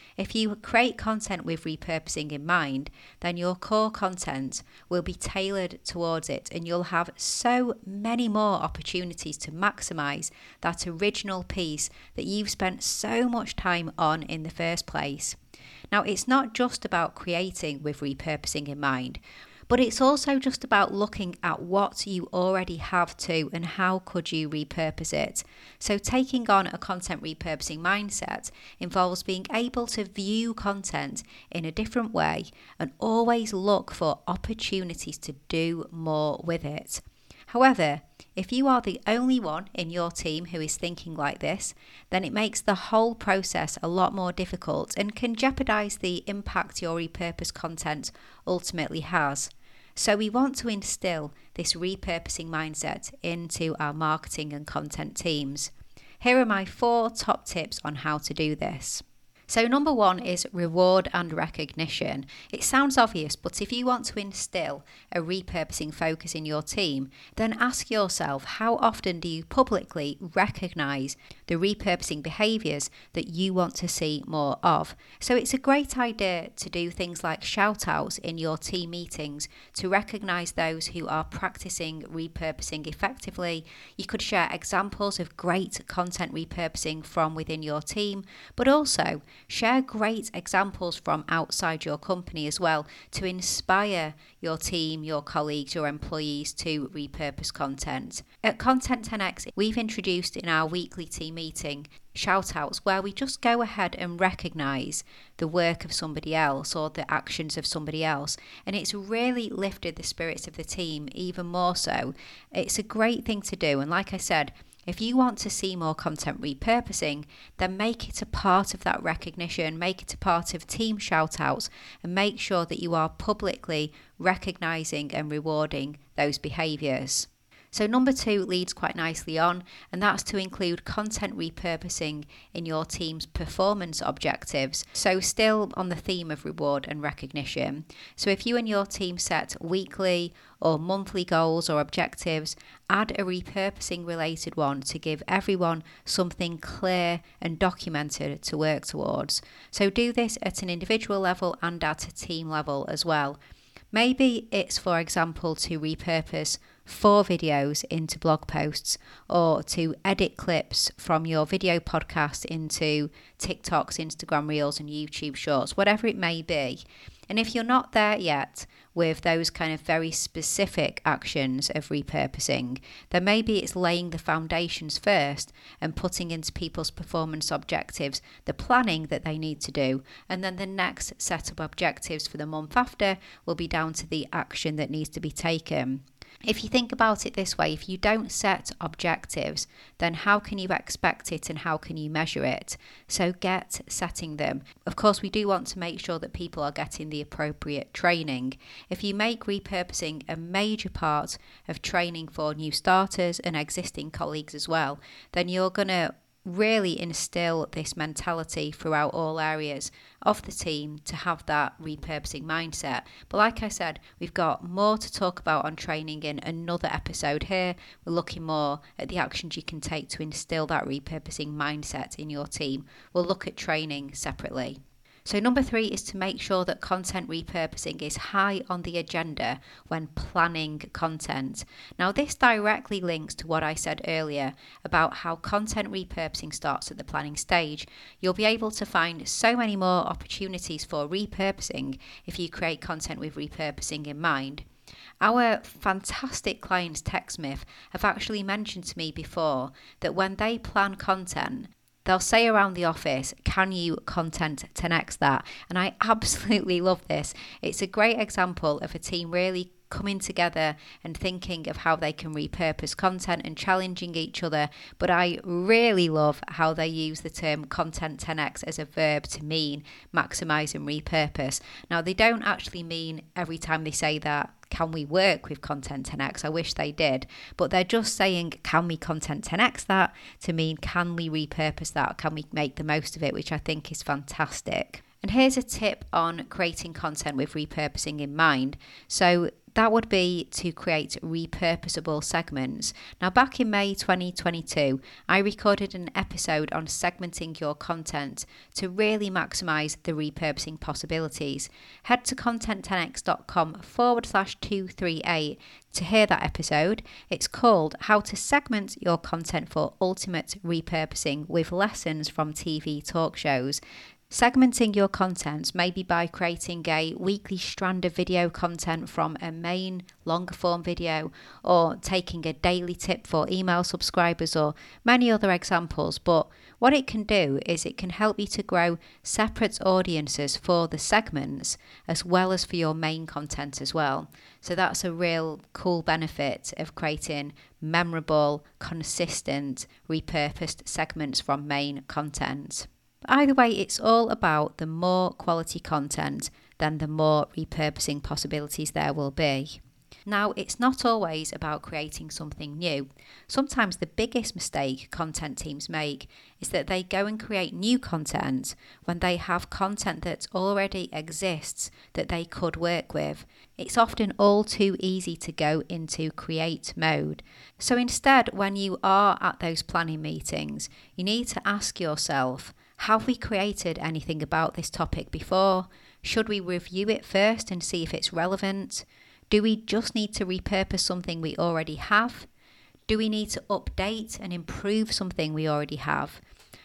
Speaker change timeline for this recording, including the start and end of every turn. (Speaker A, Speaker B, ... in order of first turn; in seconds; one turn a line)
Speaker A: 0.2-15.4
Speaker A: 15.9-153.4
Speaker A: 153.9-244.7
Speaker A: 245.2-382.5
Speaker A: 383.1-386.4